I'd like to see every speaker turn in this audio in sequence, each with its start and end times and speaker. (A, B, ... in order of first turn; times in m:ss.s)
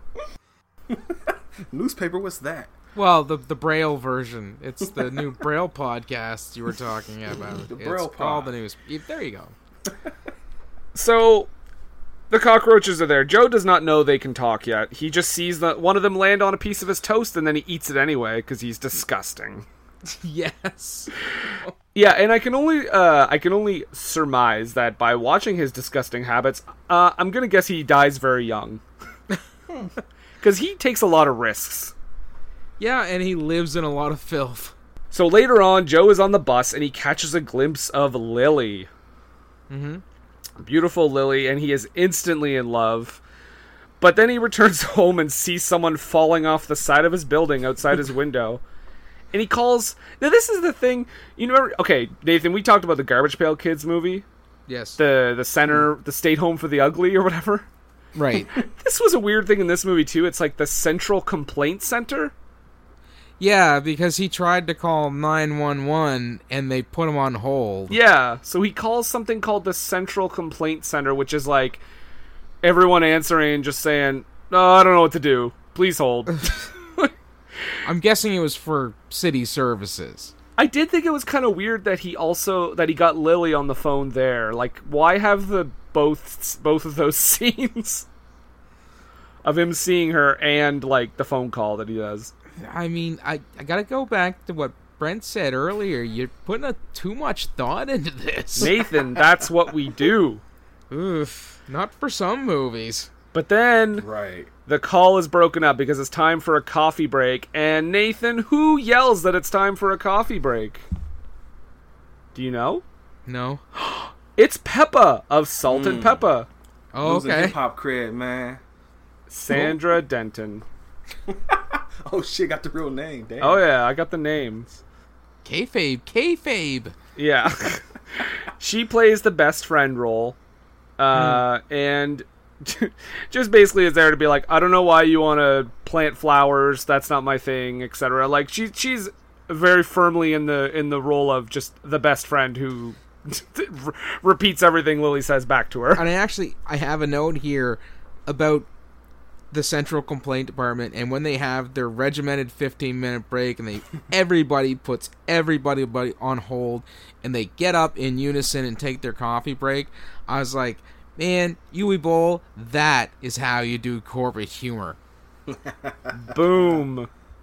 0:00.9-0:02.7 A
0:02.9-0:09.5 B
0:07.5-0:08.5 A
0:10.9-0:11.5 C
0:12.3-0:19.6 C
0:20.0-0:21.7 B
0:21.9-0:28.8 C
0:30.4-0:31.9 C
0:32.8-0:34.7 B
0:35.1-0:38.9 C
0:39.7-0:40.0 B
0:40.6-0:43.2 C
0:44.0-0:48.6 C
0:49.3-0:54.2 C
0:54.7-0:55.0 B
0:55.0-0:57.6 C
0:58.1-0:58.5 B
0:58.6-1:02.3 C
1:03.4-1:08.0 B
1:07.9-1:11.8 C
1:12.6-1:17.1 C
1:17.8-1:20.3 B
1:20.6-1:28.0 C
1:29.4-1:32.3 C
1:32.6-1:38.7 B
1:38.6-1:40.4 C
1:40.9-1:43.1 B
1:43.3-1:44.0 C
1:44.0-1:44.5 A
1:44.7-1:50.8 C
1:52.4-1:52.8 C
1:53.3-1:53.6 B
1:54.4-1:56.5 C
1:55.6-1:56.3 A
1:56.9-1:57.6 B
1:57.0-1:58.6 A
1:59.3-2:00.6 C
2:01.3-2:03.6 A
2:03.4-2:04.8 C
2:05.4-2:06.9 B
2:07.2-2:10.4 C
2:11.0-2:26.0 C
2:11.1-2:11.4 B
2:25.9-2:28.7 B
2:29.5-2:45.0 B
2:45.5-2:46.8 A
2:46.3-2:47.1 C